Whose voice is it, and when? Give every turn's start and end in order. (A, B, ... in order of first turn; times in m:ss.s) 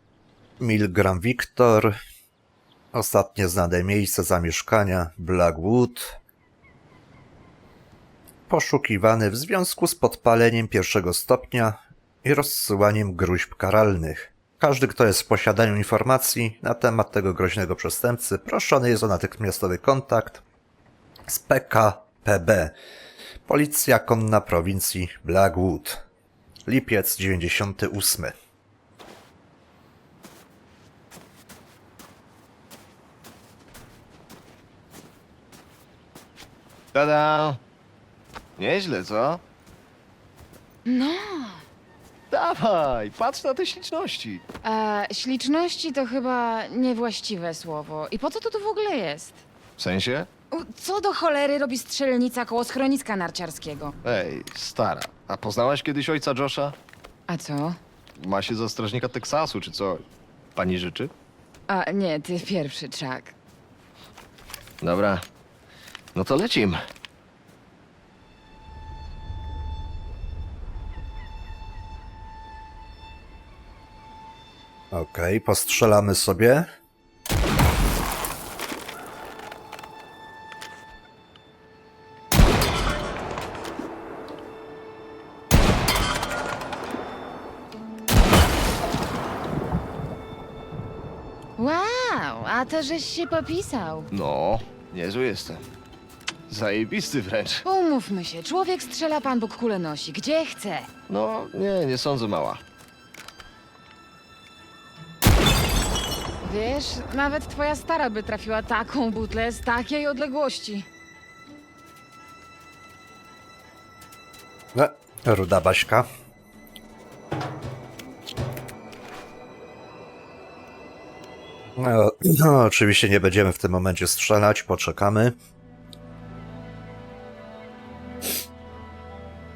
0:00.6-0:02.0 A
0:02.9-0:06.2 A
0:08.5-0:20.4 A
0:21.3-0:22.8 A
0:23.5-0:26.0 A
0:26.7-0:28.4 A
0:36.9-0:37.6 B
0:38.6-0:39.4 B
0:40.9-0:41.6 C
0:42.3-0:44.4 B
0:44.6-0:49.4 C
0:49.8-0:50.3 B
0:50.5-0:54.0 C
0:54.0-0:56.8 B
0:57.3-0:57.8 C
0:58.2-1:01.1 B
1:01.7-1:03.4 C
1:04.8-1:05.2 B
1:06.1-1:06.8 B
1:14.9-1:16.7 A
1:31.6-1:34.1 C
1:34.1-1:35.6 B
1:36.5-1:37.6 B
1:37.6-1:40.9 C
1:41.1-1:42.6 B
1:46.4-1:50.9 C
1:54.8-1:56.1 A
2:01.8-2:05.4 A